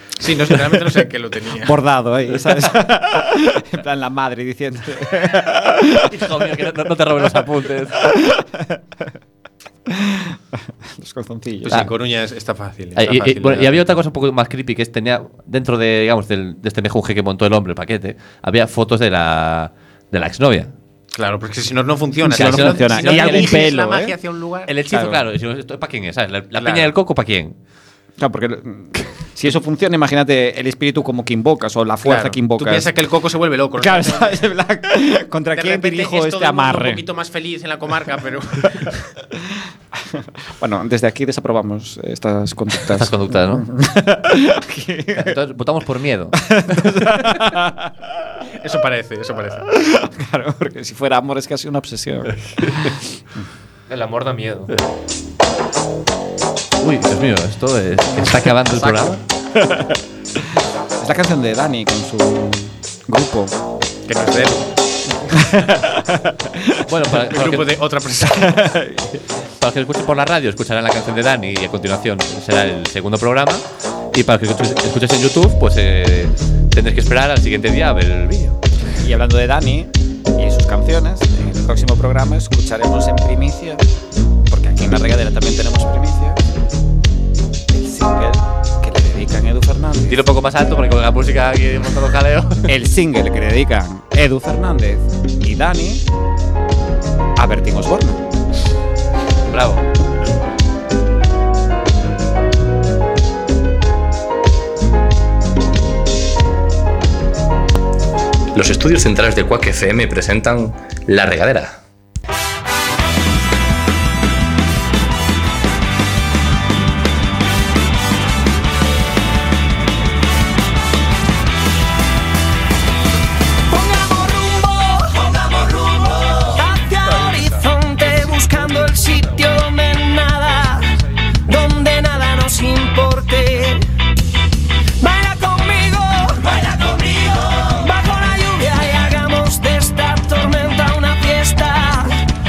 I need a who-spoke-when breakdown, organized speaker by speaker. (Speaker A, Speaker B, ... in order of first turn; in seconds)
Speaker A: 0.2-1.8, 11.7-14.0, 21.1-24.7, 26.6-26.9, 32.0-34.4, 35.5-39.1, 48.6-49.7, 64.1-64.7, 67.1-68.8
Speaker B: 1.6-6.2, 8.0-9.0, 9.9-11.9, 22.2-24.2, 24.9-25.2, 28.2-32.9, 33.8-37.0, 39.3-45.4, 46.3-48.2, 49.7-53.0, 58.2-60.0, 61.0-63.6, 65.3-66.9, 68.2-69.2, 79.0-83.8, 84.5-86.4, 87.7-90.2, 92.7-96.1, 97.4-98.2
Speaker C: 6.0-8.2, 13.0-20.7, 22.2-23.7, 24.7-27.6, 42.9-43.7, 45.1-47.4, 52.5-52.9, 56.8-59.2, 66.8-67.8, 69.6-78.6, 90.1-92.7, 99.5-99.8
Speaker D: 53.9-54.7, 127.0-129.4
Speaker E: 108.5-111.8
Speaker F: 123.7-133.9, 135.0-142.2